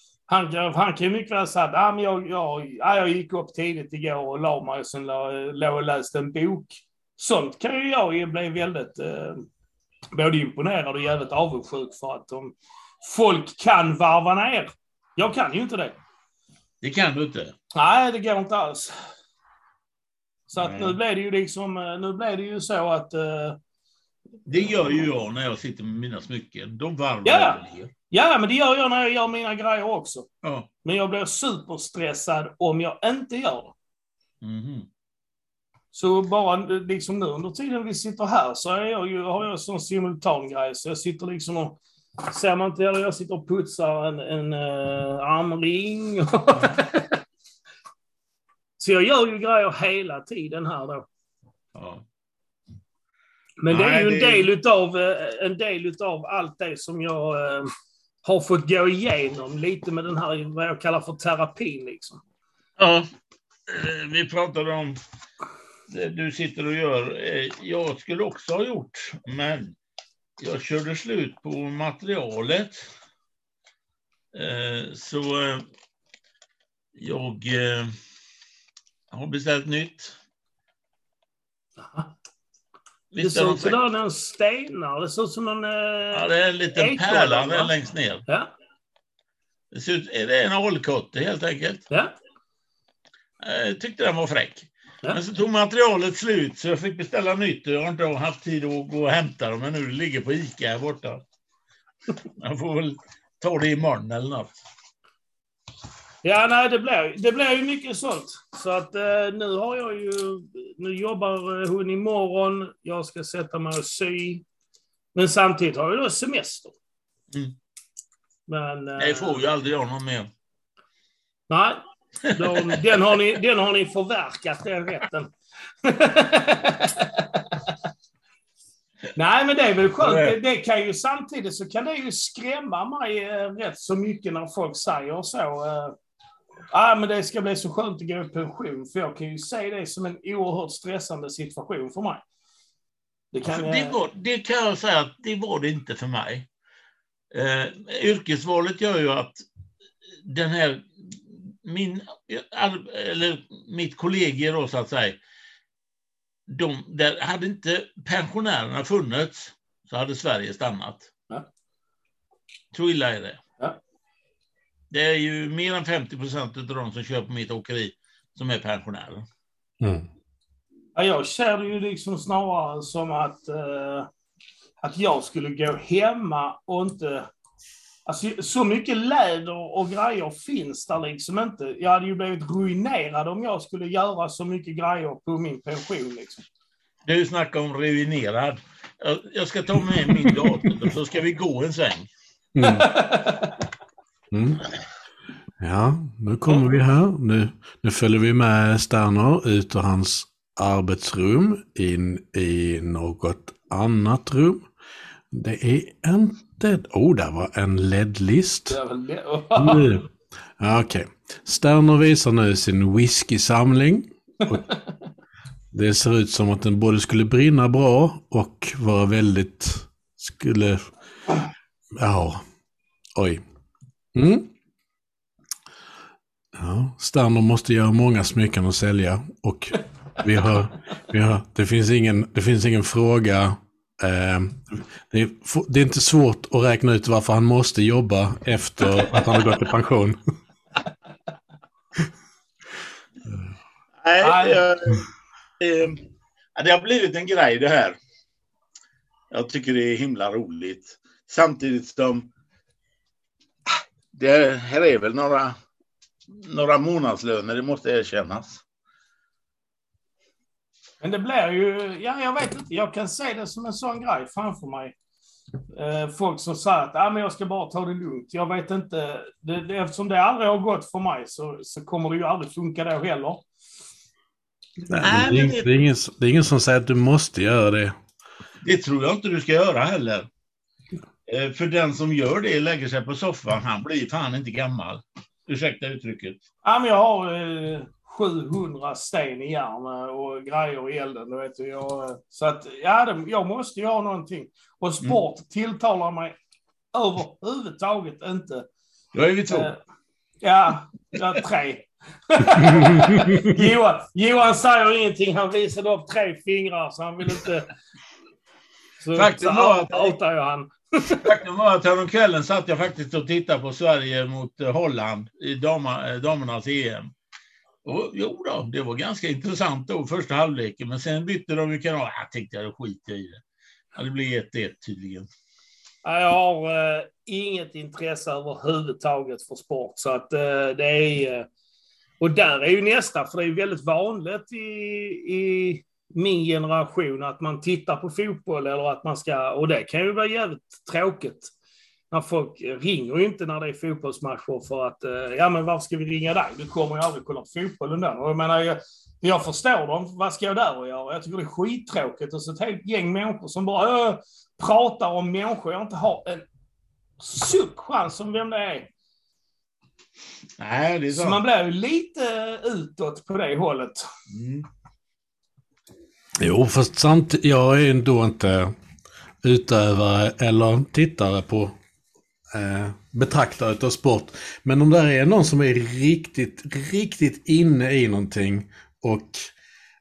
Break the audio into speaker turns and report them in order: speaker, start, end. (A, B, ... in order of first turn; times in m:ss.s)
0:00.3-0:09.4 A
0:10.1-0:16.0 A
0:16.8-0:17.5 B
0:17.7-0:18.9 A
0:20.5-0:23.6 A
0:20.6-0:21.0 B
0:24.4-0:27.9 B
0:27.2-0:27.6 A
0:28.1-0:30.3 A
0:30.4-0:30.7 B
0:30.8-0:33.7 A
0:34.4-0:34.9 B
0:35.9-0:47.2 A
0:48.8-0:51.0 A
0:51.7-0:52.0 B
0:53.6-0:57.7 A
0:53.7-0:54.5 B
0:58.2-1:02.2 A
1:02.8-1:03.1 B
1:03.7-1:05.0 B
1:05.9-1:09.7 B
1:10.4-1:12.9 B
1:14.3-1:15.6 B
1:17.0-1:17.9 B
1:19.1-1:20.2 B
1:21.8-1:22.1 A
1:23.1-1:23.8 B
1:23.2-1:27.7 A
1:26.1-1:28.2 B
1:29.7-1:31.8 B
1:33.4-1:41.2 B
1:42.4-1:44.5 B
1:46.2-1:54.4 A
1:55.1-1:56.8 A
1:58.5-1:59.4 A
1:59.0-2:00.3 B
2:01.5-2:05.3 A
2:02.3-2:02.8 B
2:05.8-2:07.6 A
2:09.2-2:15.9 A
2:10.0-2:10.4 B
2:16.7-2:22.2 A
2:23.3-2:24.0 A
2:23.4-2:26.5 B
2:27.3-2:29.4 B
2:30.2-2:35.2 B
2:36.5-2:41.1 B
2:42.7-2:43.4 B
2:44.9-2:49.2 B
2:49.8-2:50.1 C
2:50.9-2:54.1 A
2:54.8-2:57.3 A
2:58.0-3:06.4 A
3:07.0-3:12.1 B
3:12.5-3:13.0 C
3:12.6-3:13.6 A
3:14.3-3:14.6 C
3:15.6-3:24.7 C
3:25.3-3:28.8 C
3:28.7-3:29.9 A
3:29.5-3:30.0 C
3:30.6-3:34.6 C
3:34.6-3:35.0 A
3:35.7-3:40.9 C
3:42.0-3:42.4 C
3:43.1-3:43.4 C
3:44.1-3:44.5 C
3:46.5-4:00.2 C
4:04.0-4:05.0 B
4:04.2-4:04.6 A
4:05.6-4:06.0 B
4:06.6-4:08.0 B
4:09.3-4:12.3 B
4:14.1-4:15.6 B
4:16.3-4:18.6 B
4:21.0-4:24.9 A
4:25.7-4:33.4 A
4:34.9-4:37.9 C
4:35.0-4:35.8 B
4:38.6-4:40.3 B
4:41.3-4:46.4 B
4:46.6-4:56.3 A
4:56.9-4:58.7 A
4:59.1-4:59.7 B
4:59.5-4:59.8 A
5:00.4-5:07.7 A
5:09.0-5:11.3 A
5:09.1-5:10.2 B
5:11.2-5:17.1 B
5:17.8-5:23.4 B
5:23.9-5:25.3 B
5:26.0-5:31.4 A
5:32.2-5:41.5 A
5:42.1-5:56.4 A
5:57.2-5:58.9 A
6:00.6-6:01.4 B
6:01.1-6:04.1 A
6:04.3-6:04.6 B
6:06.4-6:08.7 C
6:09.4-6:11.7 C
6:12.5-6:19.5 C